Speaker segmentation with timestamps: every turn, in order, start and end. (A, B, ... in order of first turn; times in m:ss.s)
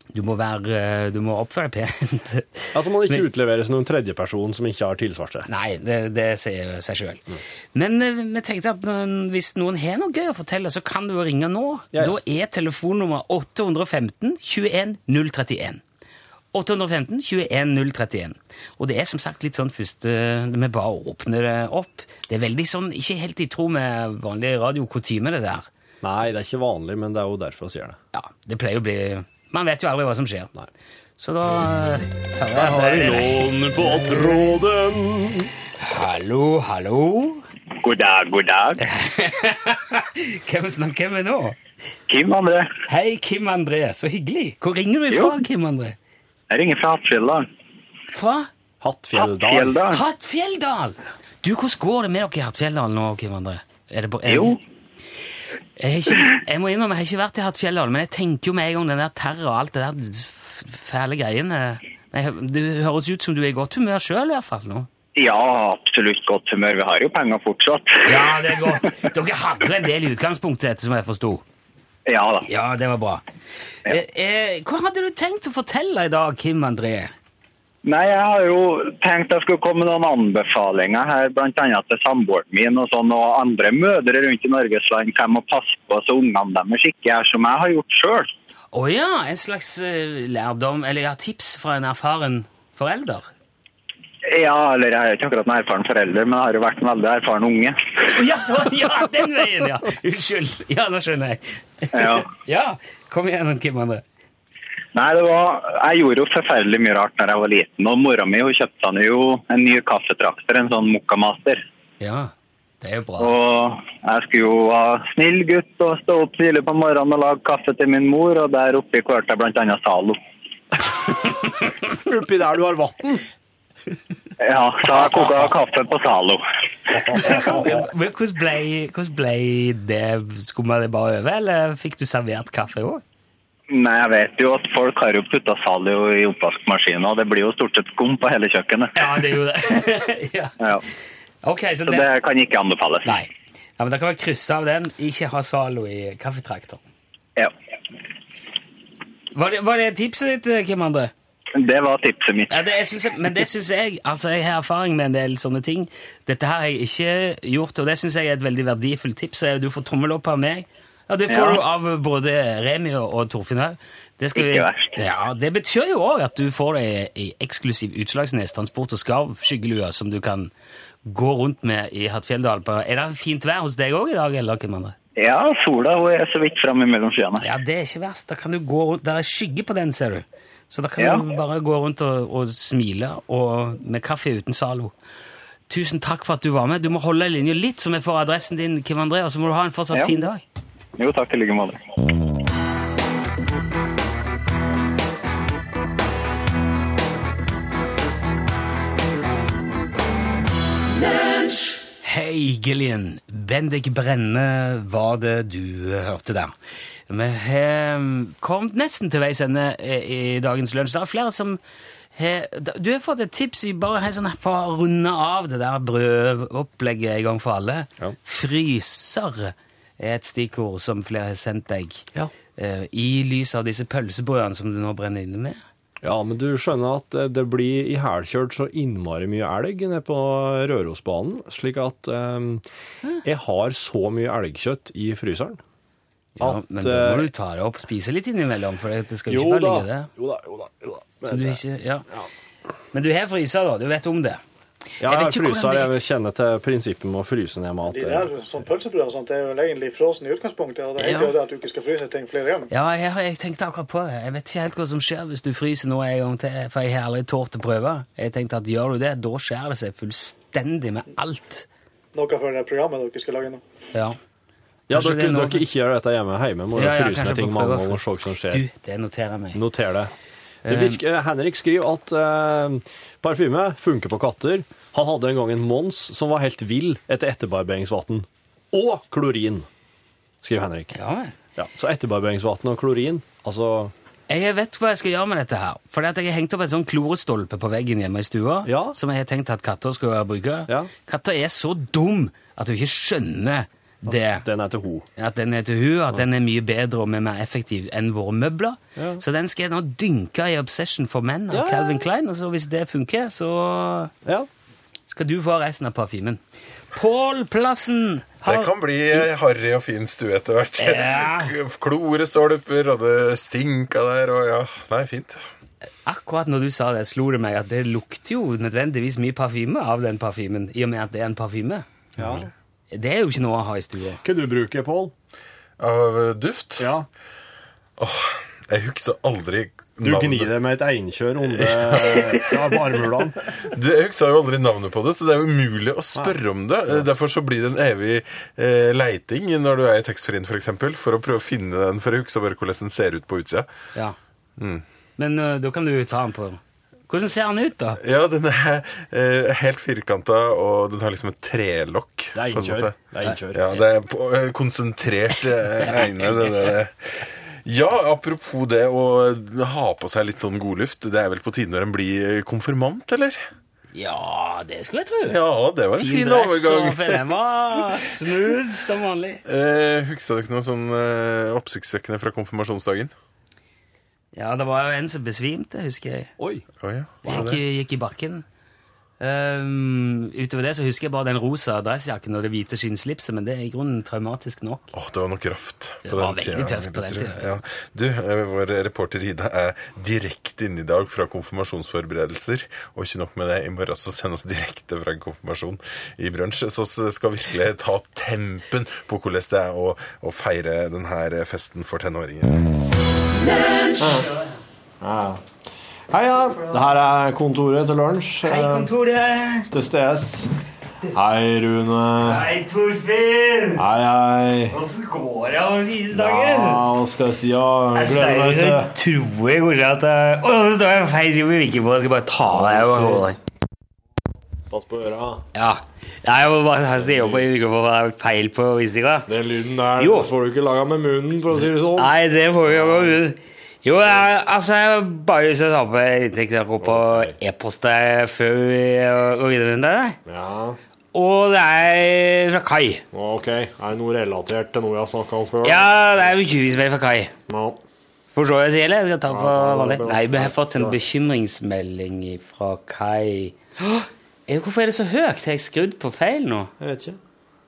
0:00.1-0:03.2 A
0:02.7-0:05.5 B
0:05.5-0:15.8 A
0:16.5-0:25.7 A
0:26.0-0:28.0 B
0:28.1-0:30.5 A
0:31.2-0:33.5 A
0:32.5-0:35.5 B
0:35.8-0:37.4 A
0:37.8-0:38.8 C
0:38.8-0:41.6 A
0:42.1-0:42.7 C
0:42.9-0:46.0 A
0:45.1-0:45.4 C
0:46.5-0:47.5 C
0:48.1-0:48.5 A
0:48.8-0:49.8 B
0:49.2-0:50.0 C
0:49.9-0:54.6 A
0:54.2-0:54.6 C
0:55.8-1:04.9 A
1:05.2-1:08.3 C
1:08.0-1:11.4 A
1:12.1-1:12.5 C
1:12.4-1:13.2 A
1:13.9-1:17.1 A
1:17.8-1:28.3 C
1:28.7-1:33.3 A
1:34.3-1:37.8 C
1:38.1-1:44.0 A
1:41.9-1:42.3 C
1:44.9-1:51.6 C
1:52.0-1:53.4 A
1:53.2-2:00.2 C
2:01.8-2:03.3 B
2:04.4-2:06.4 C
2:06.9-2:07.9 B
2:07.1-2:13.0 A
2:13.7-2:19.0 C
2:18.9-2:20.6 A
2:21.4-2:22.1 A
2:21.9-2:23.2 C
2:23.0-2:26.8 A
2:29.3-2:31.1 A
2:31.6-2:32.5 C
2:32.5-2:50.5 A
2:41.3-2:41.6 C
2:44.4-2:45.0 C
2:51.0-2:55.0 A
2:55.2-2:57.5 C
2:57.4-3:04.9 A
3:01.0-3:01.2 C
3:05.7-3:10.4 A
3:11.0-3:11.8 C
3:22.0-3:26.5 A
3:27.1-3:31.6 A
3:32.2-3:42.0 A
3:42.6-3:45.6 A
3:46.0-3:52.6 B
3:53.2-3:55.6 B
3:56.4-4:00.1 A
3:56.4-3:57.3 B
3:59.3-4:02.3 B
4:01.3-4:02.0 A
4:02.9-4:04.4 A
4:05.0-4:08.3 B
4:05.0-4:05.9 A
4:07.9-4:12.7 D
4:11.0-4:11.3 A
4:12.7-4:21.7 A
4:22.1-4:23.6 D
4:24.9-4:28.6 B
4:24.9-4:25.6 A
4:26.8-4:29.6 A
4:29.5-4:30.1 B
4:30.6-4:31.0 A
4:30.6-4:39.7 B
4:40.4-4:41.0 B
4:40.9-4:41.4 A
4:41.6-4:43.9 B
4:44.3-4:54.4 A
4:48.6-4:49.0 B
4:54.1-4:55.1 B
4:55.2-5:04.1 A
4:59.0-4:59.2 B
5:01.5-5:02.1 B
5:05.1-5:06.4 A
5:06.9-5:09.2 A
5:08.4-5:15.4 E
5:10.8-5:11.5 A
5:16.0-5:21.8 A
5:22.2-5:22.5 B
5:22.2-5:22.4 E
5:22.9-5:24.2 A
5:24.2-5:25.1 B
5:25.8-5:26.9 E
5:26.8-5:27.1 B
5:28.0-5:30.5 E
5:30.0-5:33.4 B
5:31.5-5:32.5 E
5:33.7-5:43.7 E
5:44.6-5:44.8 E
5:45.2-5:48.0 A
5:48.0-5:53.0 E
5:52.3-5:53.7 B
5:53.2-5:53.8 A
5:53.5-6:03.4 E
5:55.8-5:56.8 A
6:03.9-6:05.4 A
6:05.2-6:07.2 E
6:05.9-6:09.4 A
6:09.4-6:13.1 E
6:14.3-6:16.3 A
6:16.4-6:16.6 B
6:16.8-6:17.6 E
6:17.2-6:18.4 A
6:19.2-6:24.9 A
6:24.9-6:42.7 E
6:26.0-6:27.5 A
6:43.4-6:44.6 A
6:44.0-6:44.3 B
6:45.0-6:45.4 B
6:46.1-6:48.9 B
6:48.4-6:49.7 A
6:49.7-6:50.5 B
6:51.1-6:52.5 B
6:52.2-6:53.8 A
6:53.8-6:54.8 B
6:54.7-6:56.8 A
6:56.1-6:58.9 B
6:57.9-7:03.4 A
7:02.4-7:03.3 B
7:04.7-7:05.4 B
7:05.5-7:09.3 A
7:06.9-7:07.4 B
7:09.3-7:13.2 B
7:10.0-7:10.3 A
7:11.9-7:20.2 A
7:16.8-7:17.4 B
7:20.2-7:20.8 B
7:21.1-7:23.0 A
7:23.1-7:26.3 B
7:25.6-7:27.3 A
7:27.5-7:27.8 B
7:28.4-7:36.7 A
7:29.3-7:31.0 B
7:36.8-7:37.2 B